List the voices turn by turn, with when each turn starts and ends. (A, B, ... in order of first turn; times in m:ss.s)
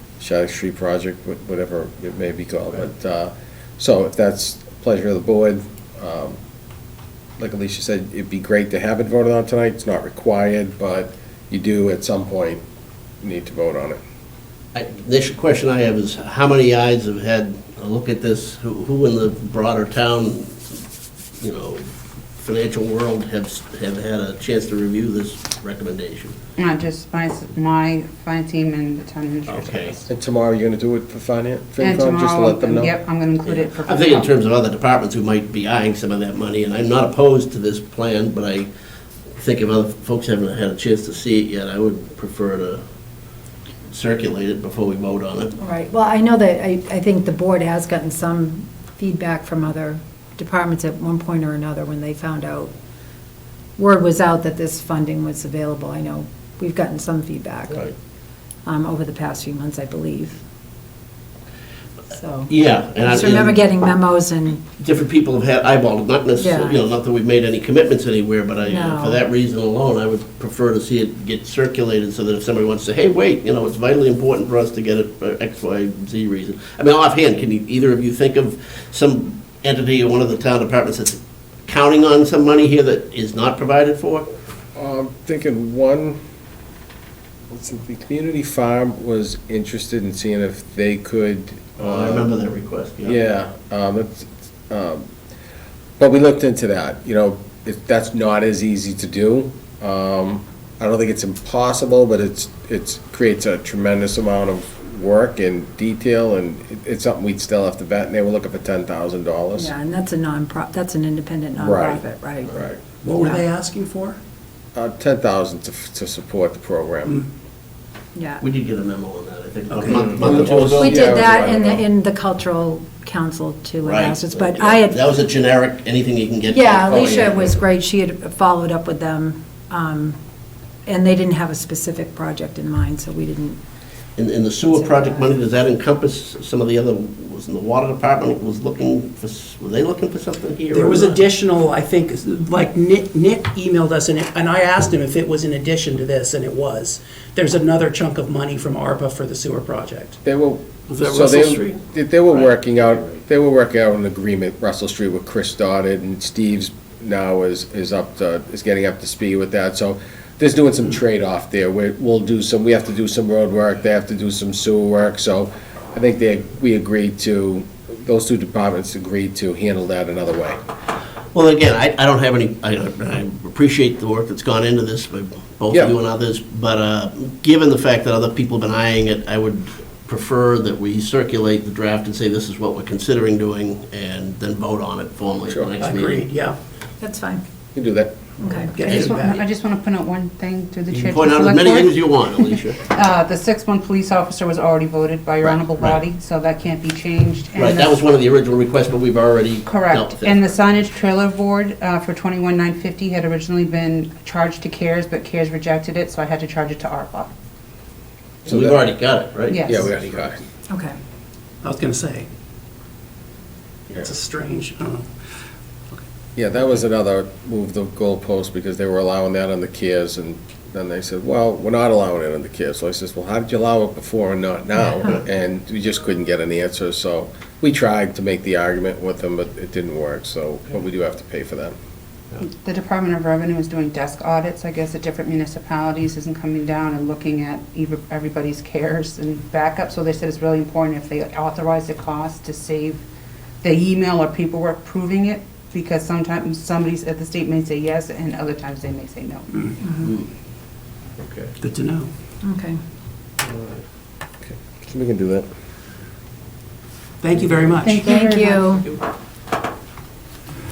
0:00.2-0:06.4 A
0:07.4-0:12.6 A
0:13.2-0:14.0 A
0:14.8-0:20.6 B
0:21.4-0:21.9 B
0:22.4-0:26.4 B
0:26.6-0:30.0 C
0:29.5-0:30.0 B
0:30.1-0:32.9 A
0:31.8-0:34.3 C
0:33.4-0:38.7 B
0:39.3-0:42.8 B
0:43.9-0:45.5 B
0:45.6-0:52.7 D
0:53.8-0:57.8 D
0:58.7-1:00.4 D
1:02.1-1:04.6 D
1:02.5-1:03.6 B
1:04.8-1:24.3 B
1:06.4-1:06.9 D
1:08.6-1:09.2 D
1:24.8-1:26.2 A
1:27.5-1:32.3 A
1:31.8-1:33.2 B
1:33.0-1:35.1 A
1:36.0-1:49.7 A
1:49.6-1:52.6 D
1:51.6-1:52.8 A
1:53.0-1:54.2 E
1:53.2-1:53.4 D
1:54.8-1:57.2 A
1:58.1-1:58.4 D
1:58.4-2:01.1 B
1:59.7-2:00.6 E
1:59.9-2:01.8 A
2:00.6-2:05.1 D
2:03.8-2:07.6 B
2:06.5-2:10.2 D
2:06.9-2:07.2 A
2:10.8-2:13.6 D
2:14.2-2:21.2 B
2:14.7-2:15.2 D
2:20.7-2:30.2 E
2:30.2-2:50.6 A
2:30.9-2:33.2 B
2:51.3-3:06.2 B
3:05.8-3:06.6 E
3:07.0-3:07.4 D
3:07.8-3:08.2 A
3:08.4-3:08.7 D
3:08.5-3:09.4 E
3:08.8-3:09.2 B
3:08.9-3:18.0 C
3:10.9-3:12.8 B
3:15.4-3:16.0 B
3:17.6-3:20.4 B
3:19.7-3:27.3 C
3:28.4-3:30.3 B
3:28.5-3:28.8 A
3:29.5-3:29.9 C
3:29.7-3:30.4 A
3:30.7-3:31.0 D
3:31.6-3:32.3 E
3:33.9-3:35.1 E
3:36.4-3:51.8 A
3:52.4-4:03.0 C
4:03.6-4:09.6 C
4:09.8-4:10.1 D
4:10.0-4:10.3 B
4:11.2-4:11.5 B
4:11.6-4:12.1 E
4:12.4-4:12.8 D
4:13.4-4:13.8 B
4:14.4-4:15.5 A
4:17.2-4:18.2 E
4:17.8-4:18.8 C
4:18.0-4:18.8 D